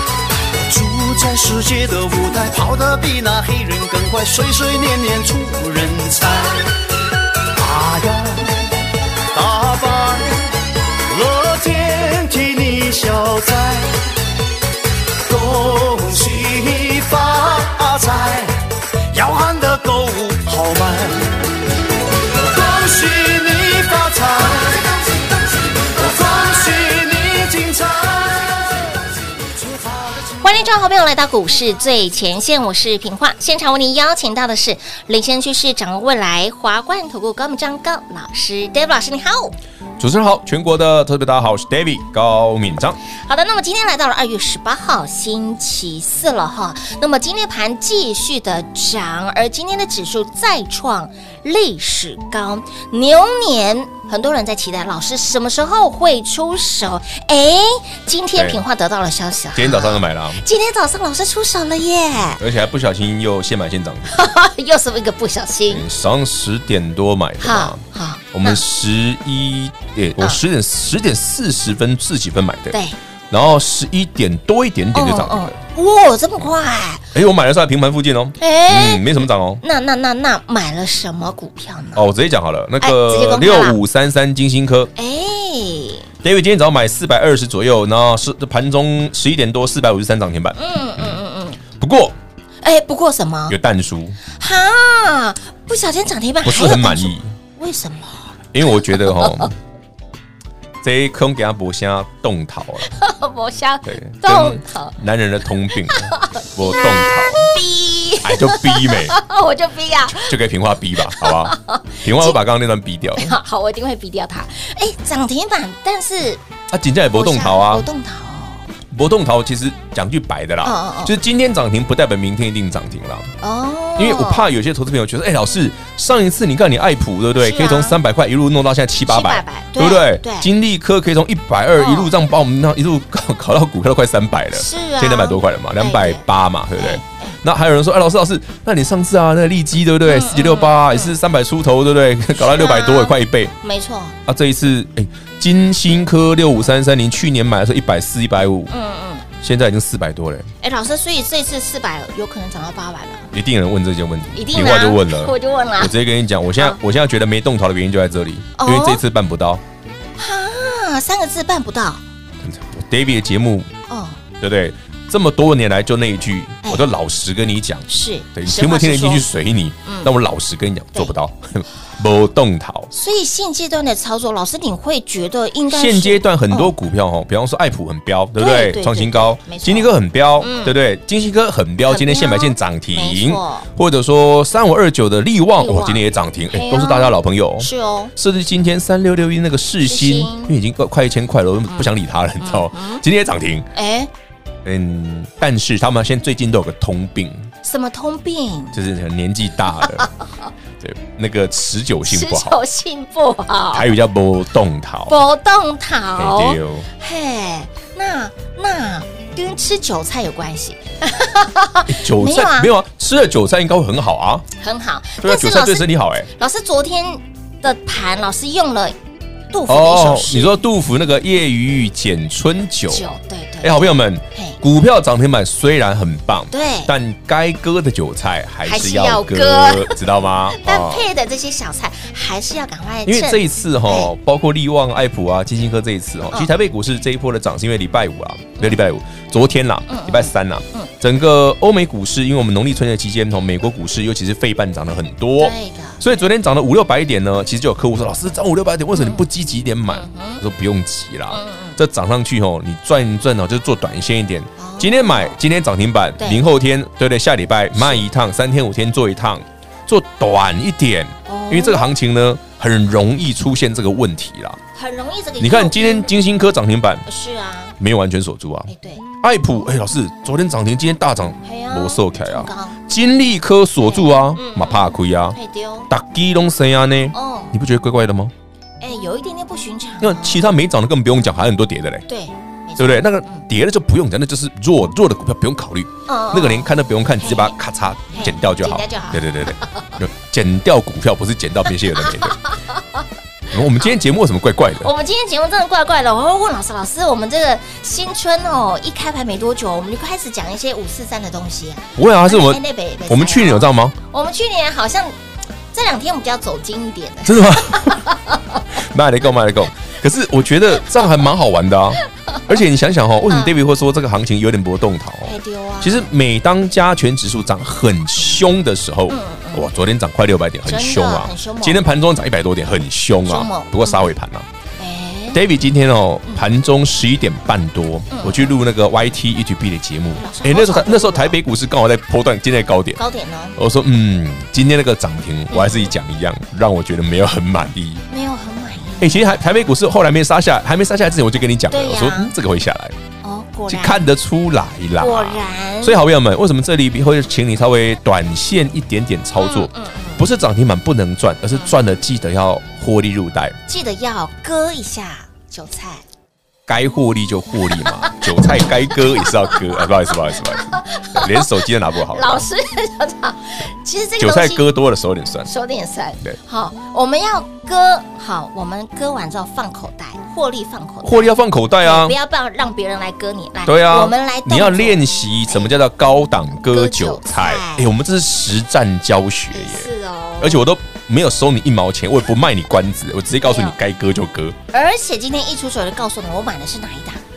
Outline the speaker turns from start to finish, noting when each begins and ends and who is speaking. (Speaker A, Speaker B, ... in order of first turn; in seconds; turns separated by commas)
Speaker A: 0.5-6.6, Speaker A: 7.6-8.6, Speaker A: 9.3-10.4, Speaker A: 11.1-14.0, Speaker A: 15.2-21.4, Speaker A: 22.3-25.1, Speaker A: 25.7-30.4, Speaker B: 30.4-39.6, Speaker C: 40.0-43.0, Speaker B: 43.2-62.4, Speaker C: 58.4-58.6, Speaker C: 59.5-60.4, Speaker C: 62.4-64.1, Speaker B: 64.1-65.8, Speaker C: 65.7-67.8, Speaker B: 67.4-68.6, Speaker C: 68.3-75.6, Speaker B: 72.7-73.0, Speaker B: 74.9-77.1, Speaker C: 77.1-79.6, Speaker B: 78.4-82.1, Speaker C: 82.0-84.9, Speaker B: 82.8-83.8, Speaker B: 85.0-86.1, Speaker C: 86.2-91.1, Speaker B: 90.5-91.6, Speaker C: 91.8-92.2, Speaker B: 92.6-93.6, Speaker C: 93.5-94.2, Speaker B: 94.3-99.5, Speaker C: 96.4-97.3, Speaker C: 98.5-99.5, Speaker C: 100.8-102.9, Speaker B: 102.8-105.0, Speaker C: 103.8-107.5, Speaker B: 105.9-110.3, Speaker C: 108.2-109.2, Speaker C: 110.1-113.4, Speaker B: 111.0-112.4, Speaker B: 113.2-116.4, Speaker C: 116.7-117.9, Speaker B: 117.1-118.7, Speaker C: 118.9-123.3, Speaker B: 120.6-121.1, Speaker B: 123.4-124.5, Speaker C: 124.0-143.5, Speaker B: 127.4-128.0, Speaker B: 129.1-130.5, Speaker B: 131.8-132.1, Speaker B: 134.5-137.4, Speaker B: 140.1-141.1, Speaker B: 142.4-144.2, Speaker C: 144.3-148.7, Speaker B: 148.7-149.3, Speaker C: 149.4-150.5, Speaker B: 150.6-153.3, Speaker C: 153.3-159.6, Speaker B: 154.3-155.9, Speaker B: 158.6-159.0, Speaker B: 160.2-162.0, Speaker C: 162.4-163.7, Speaker B: 163.9-164.2, Speaker C: 164.4-172.9, Speaker B: 167.9-169.3, Speaker B: 169.8-170.1, Speaker B: 172.9-176.7, Speaker C: 175.7-193.7, Speaker B: 178.4-180.8, Speaker B: 181.9-183.7, Speaker B: 185.6-188.1, Speaker B: 189.8-190.6, Speaker B: 191.7-193.1, Speaker B: 193.7-194.1, Speaker C: 194.6-197.5, Speaker B: 197.6-198.8, Speaker C: 198.7-200.1, Speaker B: 199.8-200.5, Speaker C: 200.8-202.6, Speaker B: 202.1-203.9, Speaker C: 203.7-205.2, Speaker B: 205.1-212.7, Speaker C: 206.2-206.9, Speaker C: 211.9-214.5, Speaker B: 214.6-219.0, Speaker C: 215.2-216.3, Speaker B: 219.5-220.6, Speaker C: 219.7-223.1, Speaker B: 222.9-224.6, Speaker C: 223.6-231.1, Speaker B: 226.5-226.9, Speaker B: 228.7-234.1, Speaker C: 233.1-264.6, Speaker B: 239.9-240.9, Speaker B: 245.4-246.0, Speaker B: 248.9-249.2, Speaker B: 249.9-250.4, Speaker B: 251.3-251.8, Speaker B: 254.6-255.4, Speaker B: 257.8-258.1, Speaker B: 261.3-261.9, Speaker B: 264.8-266.1, Speaker C: 265.4-267.1, Speaker B: 267.1-267.8, Speaker C: 267.8-275.4, Speaker B: 268.7-269.1, Speaker B: 271.4-272.8, Speaker B: 273.8-275.9, Speaker C: 275.9-278.3, Speaker B: 277.1-277.6, Speaker B: 278.8-280.4, Speaker C: 280.0-282.1, Speaker B: 282.1-283.5, Speaker C: 282.8-292.4, Speaker B: 286.1-287.5, Speaker B: 288.1-290.0, Speaker B: 291.9-293.9, Speaker C: 293.5-294.9, Speaker B: 294.8-305.2, Speaker C: 302.0-303.9, Speaker B: 305.7-308.6, Speaker C: 307.2-308.0, Speaker C: 308.7-324.5, Speaker B: 313.3-313.6, Speaker B: 315.2-316.1, Speaker B: 319.1-319.7, Speaker B: 320.7-321.9, Speaker B: 323.2-324.1, Speaker B: 324.8-325.4, Speaker C: 325.3-333.0, Speaker B: 328.1-328.5, Speaker B: 330.1-331.4, Speaker B: 333.0-333.6, Speaker C: 333.6-338.0, Speaker B: 335.5-335.9, Speaker B: 338.1-339.6, Speaker C: 339.0-343.0, Speaker B: 341.7-342.3, Speaker B: 343.2-344.0, Speaker C: 343.7-353.6, Speaker B: 345.0-346.0, Speaker B: 349.4-350.2, Speaker B: 351.5-351.8, Speaker B: 353.7-356.0, Speaker C: 356.7-362.5, Speaker B: 357.7-364.6, Speaker C: 364.2-365.5, Speaker B: 365.4-375.8, Speaker C: 371.0-372.2, Speaker C: 373.7-379.9, Speaker B: 376.6-377.9, Speaker B: 379.5-380.6, Speaker C: 380.4-384.6, Speaker B: 383.4-383.8, Speaker B: 384.7-387.2